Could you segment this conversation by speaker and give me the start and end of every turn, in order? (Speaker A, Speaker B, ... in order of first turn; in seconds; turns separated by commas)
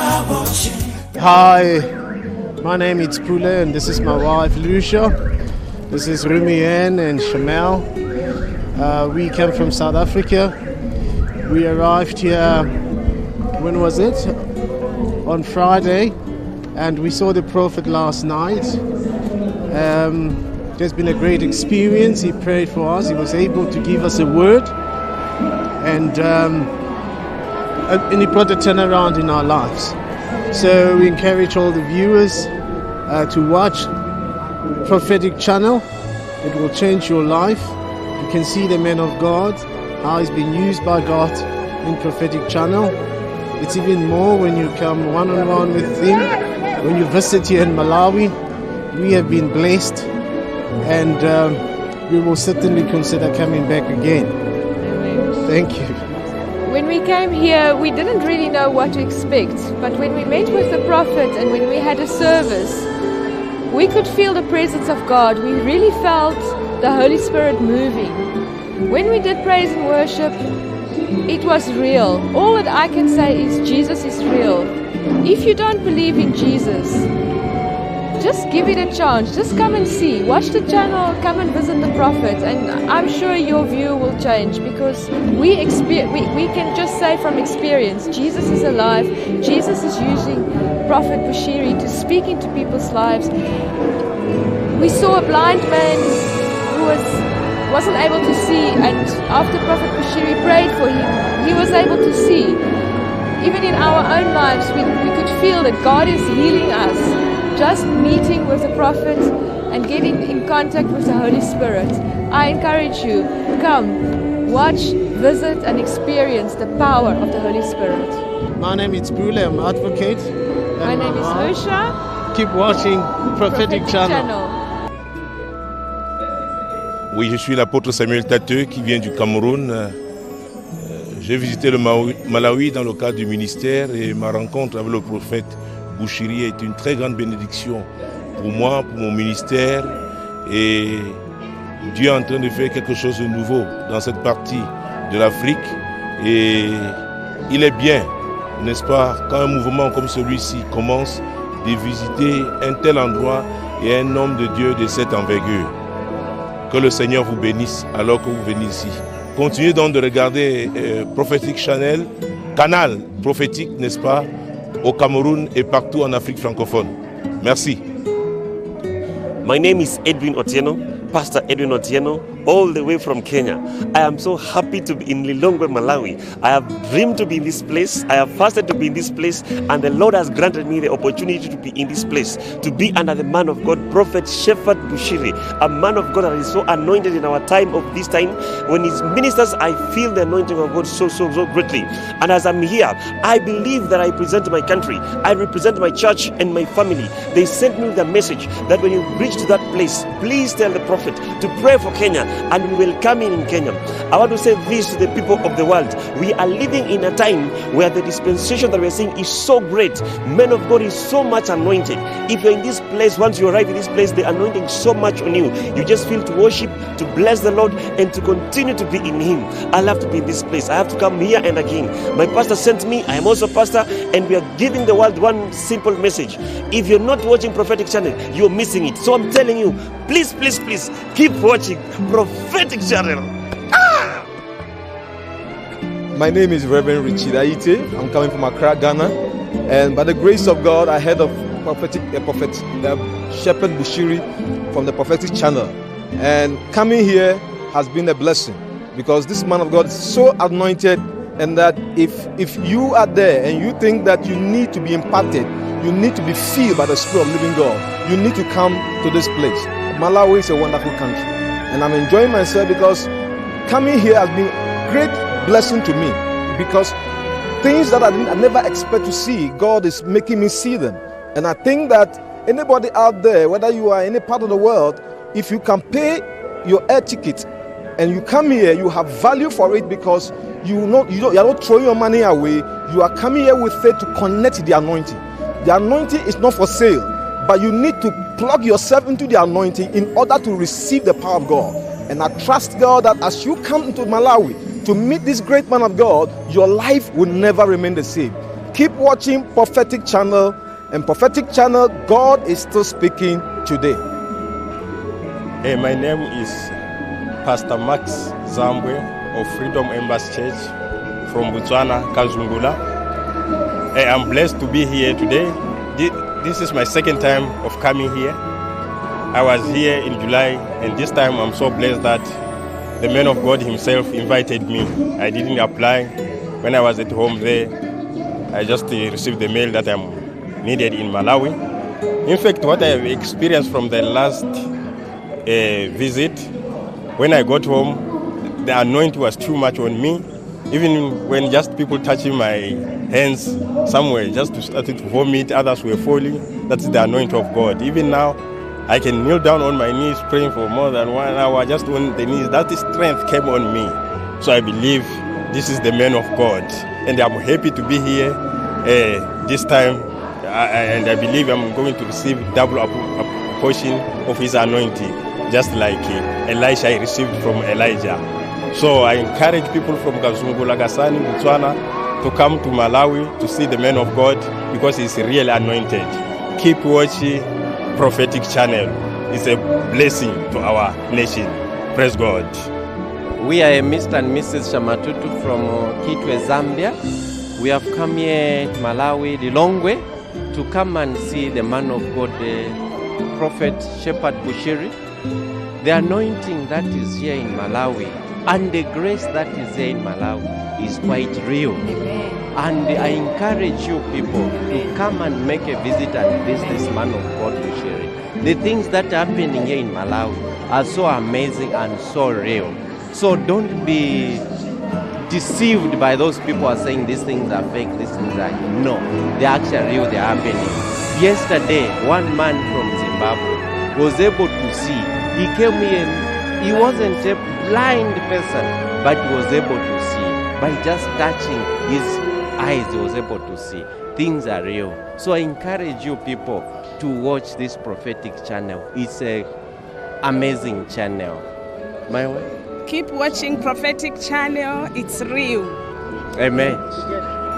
Speaker A: 1.1-1.9, Speaker A: 2.6-5.2, Speaker A: 5.9-7.9, Speaker A: 8.7-10.6, Speaker A: 11.4-12.8, Speaker A: 13.6-14.5, Speaker A: 15.2-16.2, Speaker A: 16.7-18.8, Speaker A: 19.7-24.7, Speaker A: 25.8-26.7, Speaker A: 27.9-30.0, Speaker A: 30.5-32.5, Speaker A: 33.0-33.9, Speaker A: 34.8-35.9, Speaker A: 36.4-43.0, Speaker A: 43.6-48.4, Speaker A: 48.9-50.1, Speaker A: 50.8-54.4, Speaker B: 54.8-55.4, Speaker A: 55.4-56.0, Speaker B: 56.6-62.9, Speaker B: 63.7-68.3, Speaker B: 68.9-70.4, Speaker B: 71.2-77.1, Speaker B: 78.2-93.3, Speaker B: 94.7-102.6, Speaker B: 103.4-118.2, Speaker A: 118.6-121.5, Speaker B: 120.8-121.9, Speaker A: 122.3-124.2, Speaker B: 123.4-124.6, Speaker C: 127.1-129.9, Speaker C: 130.8-137.9, Speaker C: 138.4-141.2, Speaker C: 141.9-147.0, Speaker C: 147.5-155.7, Speaker C: 156.7-164.3, Speaker C: 164.8-167.8, Speaker D: 169.4-234.2, Speaker E: 236.1-239.1, Speaker E: 239.7-263.1, Speaker E: 263.6-267.0, Speaker E: 267.6-277.5, Speaker E: 278.0-304.0, Speaker F: 305.6-306.7, Speaker F: 307.4-310.7, Speaker F: 311.3-312.8, Speaker F: 313.9-318.4, Speaker F: 319.3-322.3, Speaker F: 323.0-327.7, Speaker F: 328.5-331.6, Speaker F: 332.2-334.6, Speaker F: 335.4-336.5, Speaker F: 337.2-338.0, Speaker F: 338.6-382.7, Speaker G: 383.4-386.9, Speaker G: 387.6-390.0, Speaker G: 390.5-392.8, Speaker G: 393.3-394.9, Speaker G: 395.8-401.8, Speaker B: 402.0-402.3, Speaker G: 402.5-414.4, Speaker G: 415.3-439.5, Speaker G: 440.2-441.4, Speaker G: 442.1-442.5, Speaker H: 442.9-445.7, Speaker G: 446.4-446.8